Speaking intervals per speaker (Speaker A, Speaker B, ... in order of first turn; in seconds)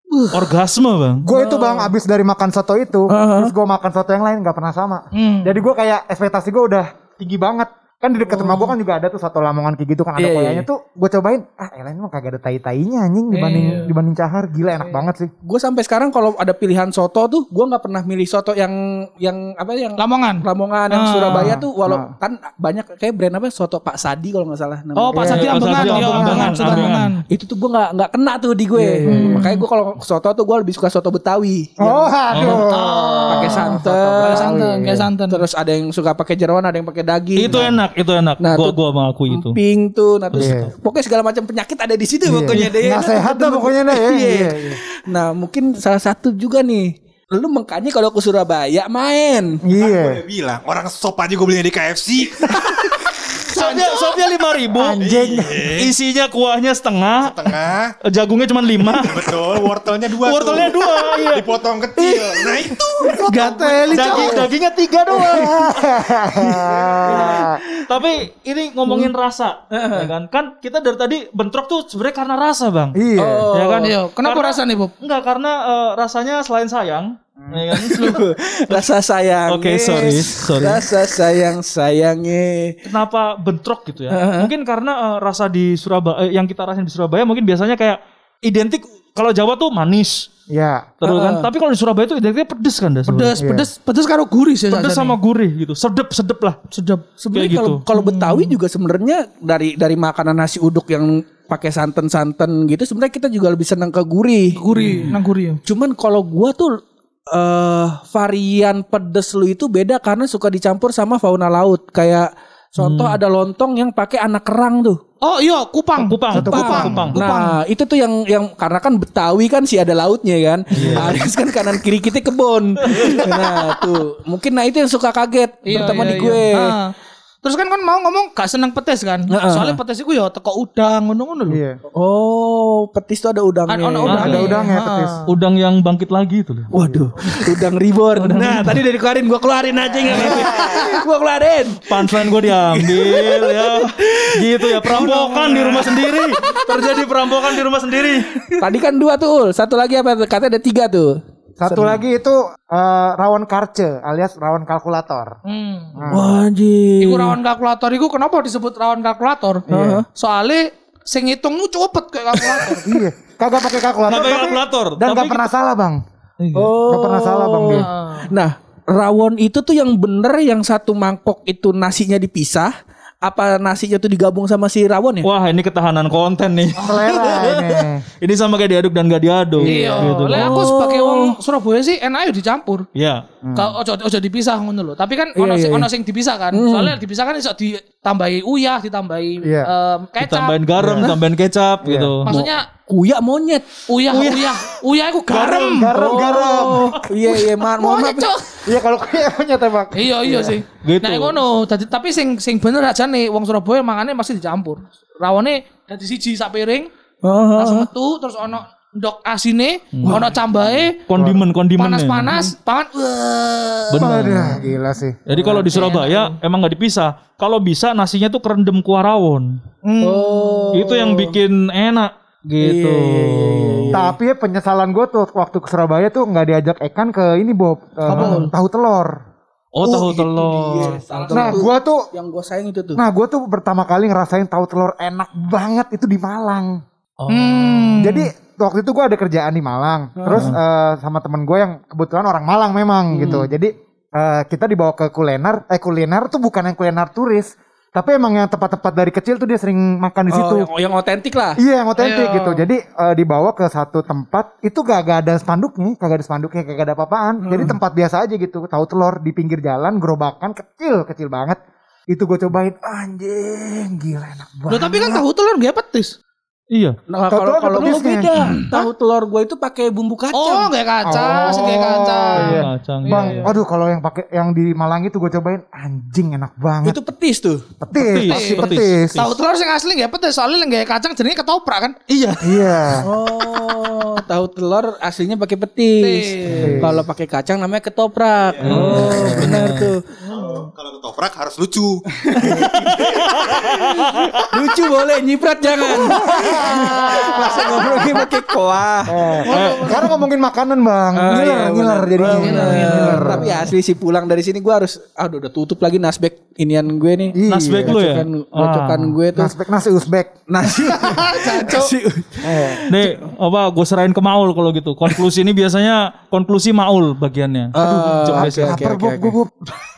Speaker A: 0.1-0.5, 1.3-1.9, 3.1-3.5, 10.2-10.7, 15.4-32.1, 33.3-37.6, 38.4-38.8, 39.3-49.6, 62.0-62.7, 66.4-67.9, 69.7-70.1, 73.2-73.9, 77.7-82.8, 84.1-84.5, 91.0-91.5, 97.2-105.1, 105.7-115.0, 116.3-126.8, 129.3-129.8, 131.9-134.5, 136.7-145.7, 146.4-147.0, 148.5-152.0, 156.1-157.4, 159.7-160.1, 166.6-175.3, 179.9-181.4, 185.3-185.9, 186.5-187.0, 192.3-193.8, 195.9-198.3, 207.2-207.9, 210.0-210.3, 215.3-216.0, 220.0-221.4, 222.6-224.1, 228.2-228.4, 229.8-233.0, 240.2-240.6, 243.1-243.5, 250.3-251.6, 257.4-257.7, 267.1-270.7, 276.9-277.6, 283.0-290.0, 292.2-293.3, 294.1-299.4, 301.1-309.5, 310.5-313.0, 317.7-319.3
Speaker B: 0.3-1.3, 25.2-27.1, 32.3-32.7, 37.4-39.6, 40.3-40.6, 53.4-55.0, 55.7-57.5, 58.0-59.6, 60.2-61.5, 63.9-66.1, 67.1-73.0, 73.5-78.9, 79.5-80.8, 82.9-90.3, 91.0-93.4, 94.7-96.6, 97.3-97.8, 112.8-113.2, 116.0-117.2, 120.7-121.2, 122.8-123.6, 134.1-134.6, 135.3-137.6, 138.2-138.8, 140.1-140.5, 141.9-148.6, 164.1-165.5, 166.4-166.7, 175.2-180.6, 182.9-183.2, 190.2-192.3, 194.1-194.6, 200.8-201.4, 210.0-210.3, 211.1-212.4, 213.9-214.6, 215.3-219.6, 220.7-224.0, 228.1-228.4, 229.8-231.5, 237.2-238.1, 266.7-267.0, 272.4-273.5, 277.9-279.3, 282.1-282.4, 286.5-286.8, 288.6-289.9, 293.1-294.3, 299.5-300.1, 307.5-309.2, 312.9-319.0
Speaker C: 1.2-15.3, 21.3-22.1, 25.1-26.6, 28.8-29.5, 31.8-35.1, 37.5-37.8, 40.3-40.7, 42.2-44.8, 49.6-50.2, 54.7-55.7, 65.1-67.6, 73.0-73.5, 90.5-90.9, 93.4-93.7, 116.3-117.1, 120.8-121.2, 131.5-131.8, 134.1-135.1, 151.6-155.3, 156.0-156.3, 159.7-160.0, 162.8-166.0, 166.9-167.9, 176.8-178.0, 179.6-180.1, 183.4-183.8, 189.4-189.7, 190.8-191.1, 191.8-192.2, 195.3-197.0, 198.7-200.6, 214.0-215.2, 223.9-229.2, 231.3-232.1, 233.0-236.8, 238.0-250.7, 251.6-261.6, 262.1-265.2, 267.3-268.3, 271.1-277.0, 277.8-279.2, 282.4-283.1, 286.5-287.1, 288.8-289.6, 296.1-298.3, 299.1-303.5, 307.4-308.0, 309.3-310.3, 312.4-312.8, 317.8-319.6
Speaker D: 5.1-5.6, 13.3-13.9, 20.0-21.6, 25.0-27.2, 29.1-29.6, 32.4-35.4, 53.4-54.2, 63.3-64.5, 73.8-74.9, 93.1-95.2, 96.7-97.1, 97.9-98.6, 104.6-105.6, 115.2-117.6, 125.7-131.6, 133.7-135.3, 140.2-141.0, 145.0-145.9, 155.5-156.0, 157.0-162.9, 167.8-168.3, 176.8-177.1, 179.6-182.8, 183.6-190.6, 192.3-192.7, 193.9-195.9, 197.3-198.6, 199.9-206.9, 207.6-211.1, 211.8-214.1, 215.8-216.3, 219.8-220.8, 228.2-228.5, 237.3-238.3, 252.0-252.7, 264.7-266.1, 268.4-268.9, 270.3-273.6, 278.2-282.0, 286.0-286.8, 290.3-290.6, 299.4-300.2, 302.3-303.5, 310.8-311.9
Speaker E: 49.8-53.0, 55.0-55.9, 57.2-57.9, 58.9-64.5, 288.5-289.0, 290.3-294.5